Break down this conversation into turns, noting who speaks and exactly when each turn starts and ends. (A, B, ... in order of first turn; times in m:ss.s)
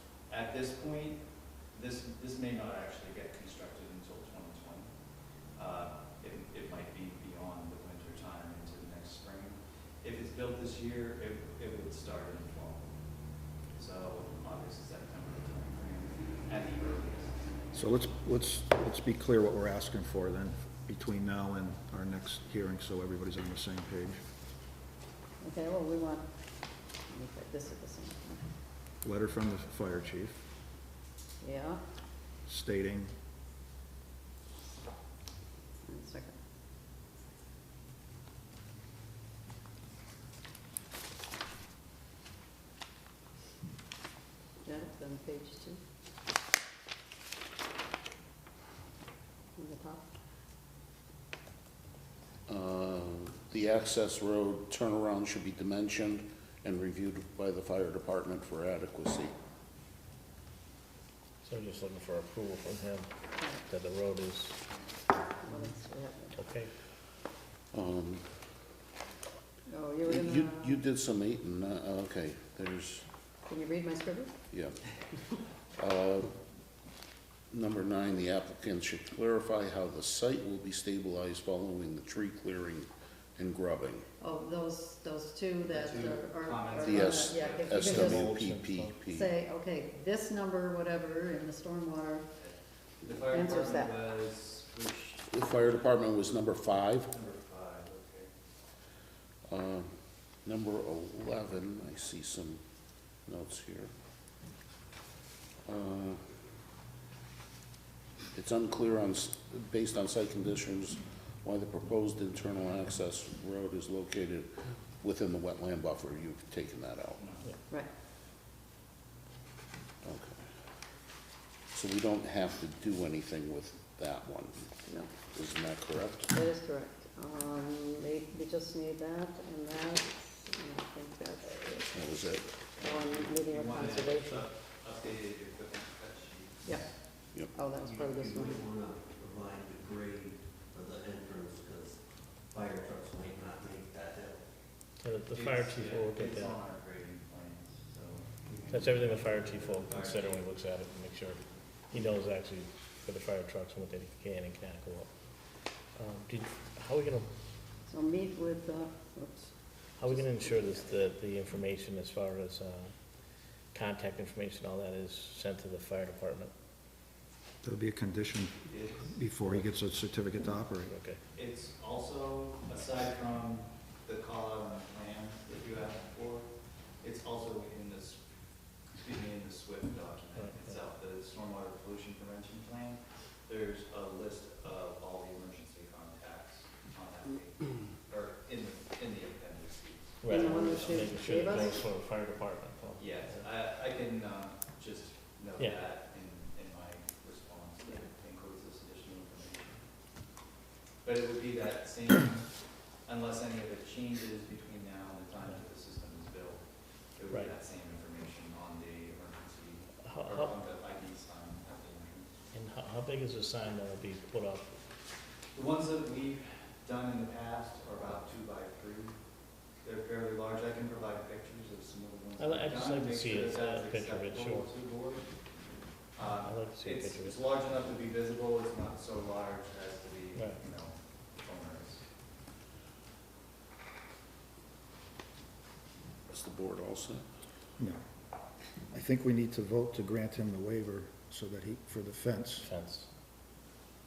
0:00.3-0:04.9 A
0:05.5-0:12.8 A
0:13.7-0:17.4 A
0:17.7-0:24.2 B
0:25.4-0:26.3 C
0:27.1-0:28.5 C
0:29.0-0:30.4 B
0:31.4-0:31.8 C
0:32.4-0:33.1 B
0:35.8-0:36.4 C
0:44.6-0:45.8 C
0:49.6-0:50.0 C
0:52.5-0:59.3 D
1:01.4-1:04.6 E
1:05.6-1:06.3 C
1:06.4-1:06.7 E
1:07.7-1:08.3 D
1:09.7-1:10.7 C
1:10.0-1:13.0 D
1:13.4-1:14.3 C
1:14.5-1:14.8 D
1:15.8-1:16.3 D
1:17.5-1:24.0 D
1:24.2-1:28.1 C
1:25.6-1:28.6 A
1:26.8-1:29.3 D
1:28.1-1:29.0 E
1:29.1-1:32.2 C
1:32.4-1:35.6 A
1:33.3-1:33.9 C
1:35.3-1:37.1 D
1:37.1-1:38.3 A
1:39.5-1:39.9 D
1:40.4-1:42.6 D
1:43.3-1:43.9 D
1:45.6-1:46.2 D
1:48.3-1:57.3 D
1:57.2-1:57.4 A
2:00.0-2:00.5 D
2:01.7-2:04.8 D
2:04.9-2:05.2 C
2:05.3-2:06.3 D
2:06.3-2:11.9 C
2:11.9-2:12.7 D
2:12.7-2:17.0 A
2:13.0-2:14.4 C
2:16.6-2:16.9 C
2:17.5-2:18.6 C
2:17.6-2:24.4 F
2:25.0-2:26.6 E
2:25.3-2:30.4 A
2:28.7-2:35.1 E
2:35.9-2:37.3 E
2:37.8-2:39.5 C
2:40.0-2:43.0 E
2:43.7-2:46.5 E
2:47.6-2:50.9 B
2:48.7-2:49.1 A
2:50.8-2:51.2 E
2:51.3-2:56.5 A
2:57.0-2:58.2 A
2:58.9-3:11.8 A
3:10.2-3:13.4 E
3:10.3-3:11.7 C
3:13.0-3:19.8 A
3:21.0-3:22.4 A
3:23.0-3:26.6 A
3:27.2-3:32.3 A
3:30.0-3:30.5 E
3:32.5-3:34.7 E
3:35.5-3:39.2 A
3:39.8-3:45.3 A
3:42.4-3:44.7 E
3:46.2-3:52.0 A
3:46.4-3:47.4 E
3:56.3-3:57.2 D
3:58.9-4:02.7 B
4:02.6-4:03.1 E